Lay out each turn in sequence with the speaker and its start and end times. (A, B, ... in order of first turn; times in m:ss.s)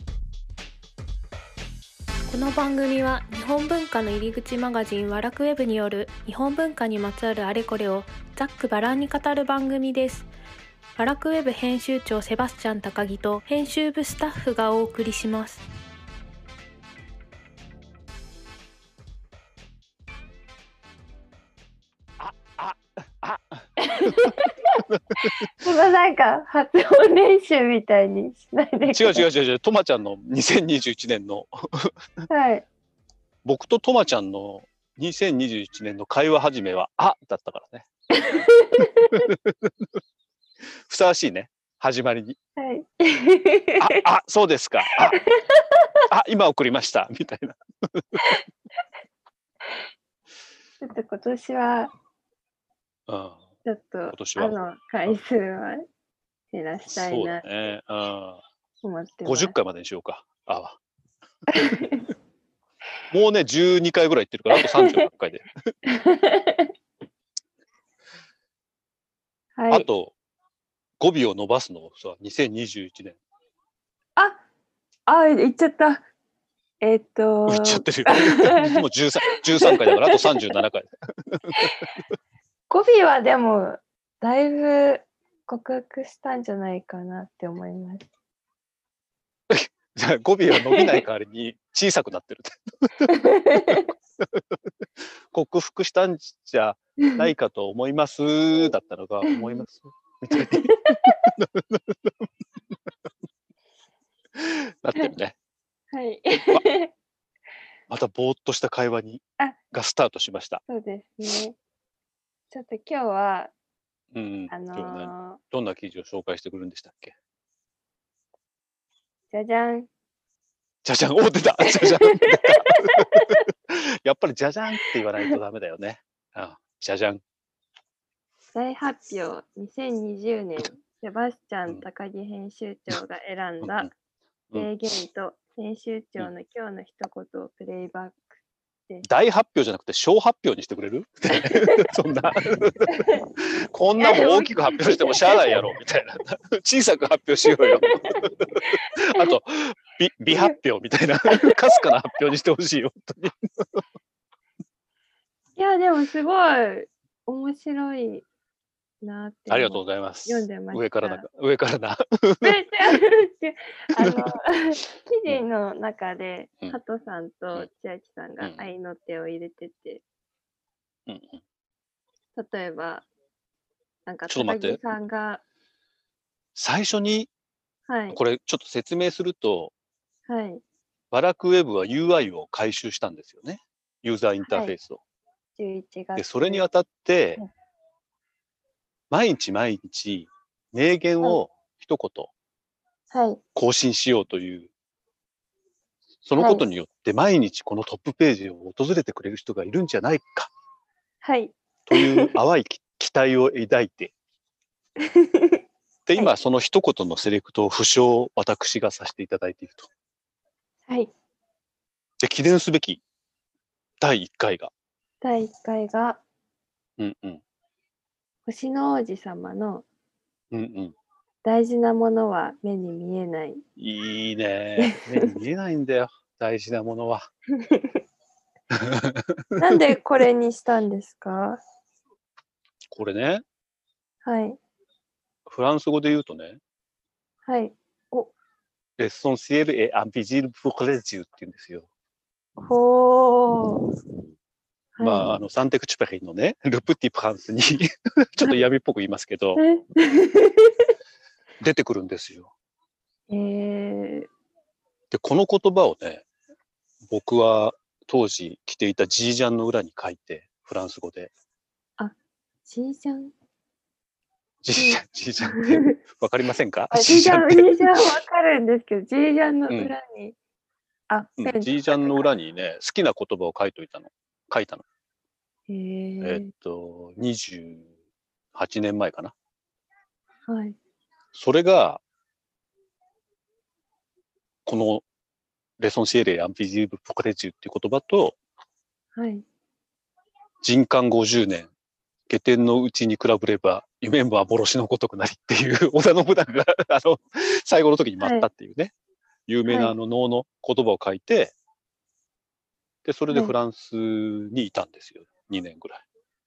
0:02.3-0:10.3 A
0:11.0-0:15.6 A
0:22.2-0:24.3 B
0:23.8-0:24.8 C
0:24.9-0:25.7 B
0:25.6-0:29.2 C
0:28.9-0:31.9 B
0:32.3-0:32.6 C
0:33.4-0:37.9 B
0:38.2-0:39.2 C
0:39.1-0:39.7 B
0:40.9-0:42.4 B
0:42.6-0:44.0 C
0:43.8-0:45.2 B
0:45.2-0:46.0 C
0:46.1-0:48.1 B
0:50.8-0:51.9 C
0:53.1-0:53.4 B
0:53.6-0:55.8 C
0:54.1-0:55.2 B
0:56.5-0:57.4 C
0:56.9-0:58.4 B
0:58.8-0:59.5 C
0:59.2-1:00.8 B
1:01.5-1:02.1 C
1:03.1-1:05.5 B
1:04.6-1:05.0 C
1:05.9-1:06.7 C
1:09.6-1:09.9 C
1:09.7-1:10.2 B
1:11.0-1:13.2 B
1:15.0-1:16.0 C
1:16.8-1:18.7 C
1:17.5-1:21.7 B
1:19.6-1:20.5 C
1:22.7-1:28.1 C
1:29.5-1:34.4 B
1:30.7-1:31.0 C
1:33.1-1:33.8 C
1:35.3-1:42.1 B
1:39.2-1:39.6 C
1:40.4-1:41.1 C
1:44.4-1:45.4 B
1:45.9-1:46.9 C
1:47.9-1:50.6 B
1:50.6-1:51.6 C
1:52.5-1:53.5 C
1:54.1-1:57.1 B
1:54.5-1:55.4 C
1:59.3-1:59.9 C
2:00.8-2:07.2 B
2:01.6-2:03.4 C
2:08.5-2:13.9 C
2:13.6-2:13.9 B
2:14.5-2:18.2 C
2:19.0-2:28.4 B
2:22.9-2:23.2 C
2:24.0-2:25.6 C
2:27.5-2:29.3 C
2:29.1-2:33.8 B
2:35.6-2:38.2 C
2:39.0-2:41.3 C
2:39.5-2:43.0 B
2:42.4-2:50.0 C
2:43.9-2:44.3 B
2:48.4-2:48.7 B
2:51.1-2:51.4 B
2:52.3-2:53.0 C
2:54.0-2:55.4 C
2:54.3-2:54.8 B
2:56.6-2:57.3 B
2:57.9-2:58.2 C
2:58.1-2:59.7 B
3:00.3-3:00.6 C
3:01.1-3:05.0 B
3:04.4-3:04.8 C
3:05.6-3:06.6 C
3:06.2-3:07.4 B
3:09.1-3:12.3 B
3:13.1-3:13.4 C
3:13.5-3:14.7 B
3:16.2-3:20.5 B
3:16.4-3:16.6 C
3:21.2-3:22.3 C
3:21.9-3:24.1 B
3:25.0-3:25.6 C
3:26.0-3:29.9 B
3:30.9-3:31.1 C
3:32.2-3:33.0 B
3:34.0-3:34.7 B
3:35.2-3:36.2 C
3:37.0-3:37.4 B
3:38.4-3:39.8 C
3:40.5-3:41.0 B
3:41.4-3:43.6 C
3:43.8-3:47.3 B
3:44.8-3:45.3 C
3:47.6-3:48.0 C
3:48.7-3:49.8 B
3:49.6-3:51.6 C
3:52.9-3:53.4 B
3:54.2-3:54.6 C
3:55.4-3:56.6 B
3:57.4-3:58.3 C
3:59.0-4:01.9 B
4:02.6-4:03.9 C
4:05.0-4:05.3 C
4:05.0-4:09.6 B
4:09.6-4:10.9 C
4:11.6-4:12.5 B
4:13.3-4:14.3 C
4:15.1-4:16.2 B
4:17.1-4:21.3 B
4:22.0-4:23.3 C
4:24.6-4:28.2 B
4:24.7-4:25.9 C
4:26.9-4:30.4 C
4:31.1-4:32.3 C
4:31.4-4:34.8 B
4:35.7-4:36.5 C
4:36.2-4:37.9 B
4:38.5-4:39.3 B
4:40.5-4:40.8 C
4:41.3-4:42.0 B
4:44.6-4:45.0 B
4:45.8-4:48.4 B
4:49.1-4:49.4 C
4:50.6-4:51.7 B
4:52.3-4:58.9 B
4:58.2-4:58.5 C
4:59.5-5:01.5 B
4:59.6-4:59.9 C
5:03.0-5:06.0 B
5:03.3-5:03.5 C